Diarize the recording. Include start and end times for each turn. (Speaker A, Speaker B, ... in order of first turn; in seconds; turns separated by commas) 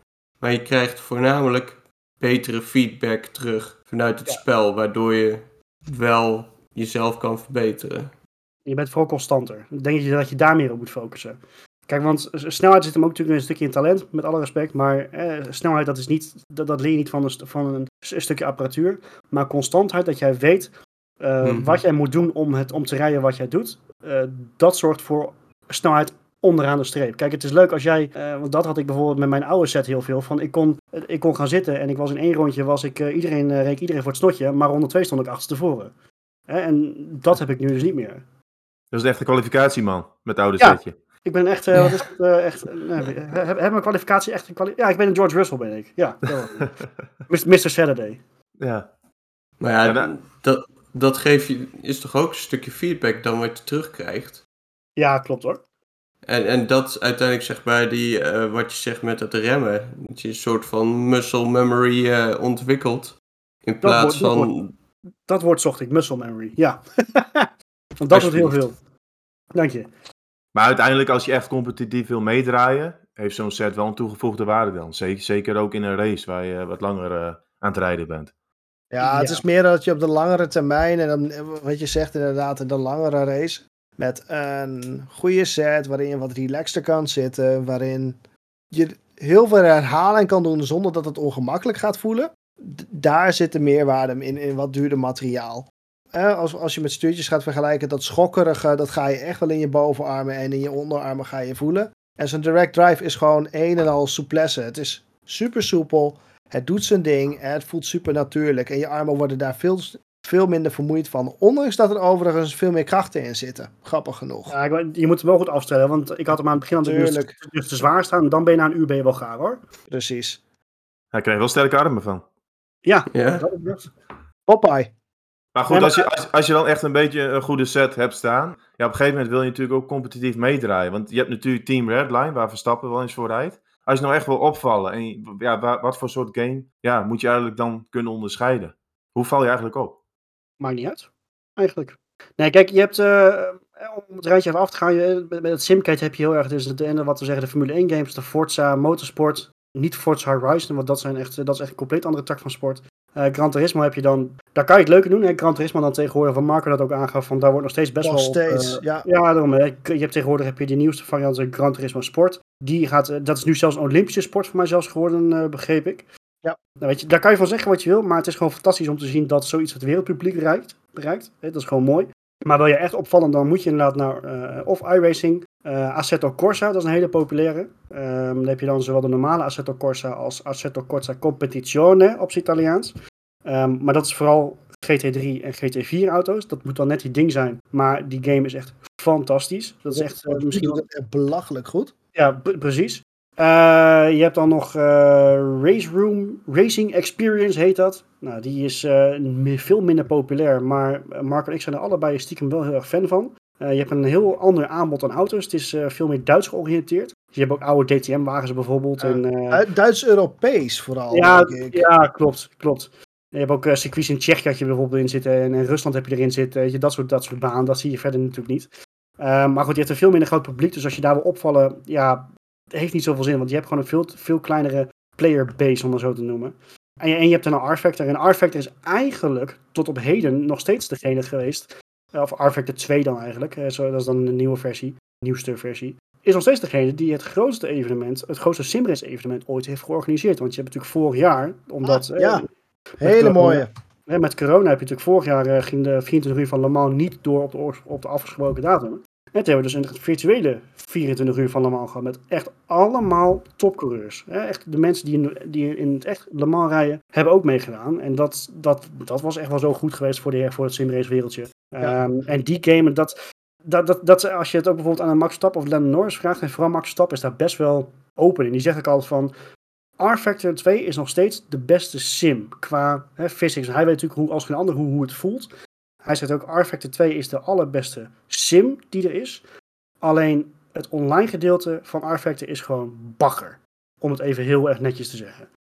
Speaker A: 0.4-8.1, Speaker B: 8.7-35.9, Speaker A: 21.4-21.8, Speaker B: 36.5-38.2, Speaker C: 38.9-41.0, Speaker B: 40.6-46.8, Speaker B: 47.3-48.2, Speaker C: 48.6-48.9, Speaker A: 49.6-54.4, Speaker C: 49.9-50.1, Speaker B: 55.0-55.6, Speaker A: 56.2-64.7, Speaker B: 63.8-64.5, Speaker B: 65.3-68.8, Speaker A: 68.1-68.6, Speaker B: 69.5-69.9, Speaker C: 70.5-78.3, Speaker D: 78.9-88.2, Speaker B: 79.0-79.4, Speaker D: 88.7-114.5, Speaker B: 114.5-119.6, Speaker D: 116.8-117.3, Speaker D: 119.9-120.4, Speaker C: 121.1-122.2, Speaker B: 122.8-123.9, Speaker A: 123.1-123.5, Speaker D: 124.5-124.9, Speaker C: 125.5-140.0, Speaker B: 125.7-126.1, Speaker B: 140.6-166.1, Speaker D: 158.0-159.1, Speaker B: 166.8-190.8, Speaker D: 189.9-191.9, Speaker B: 192.2-209.6, Speaker D: 209.0-211.9, Speaker B: 211.1-218.7, Speaker B: 219.2-242.5, Speaker D: 241.8-242.5, Speaker D: 243.0-243.7, Speaker B: 243.0-269.3, Speaker B: 270.0-275.5, Speaker B: 276.0-279.4, Speaker B: 280.0-285.5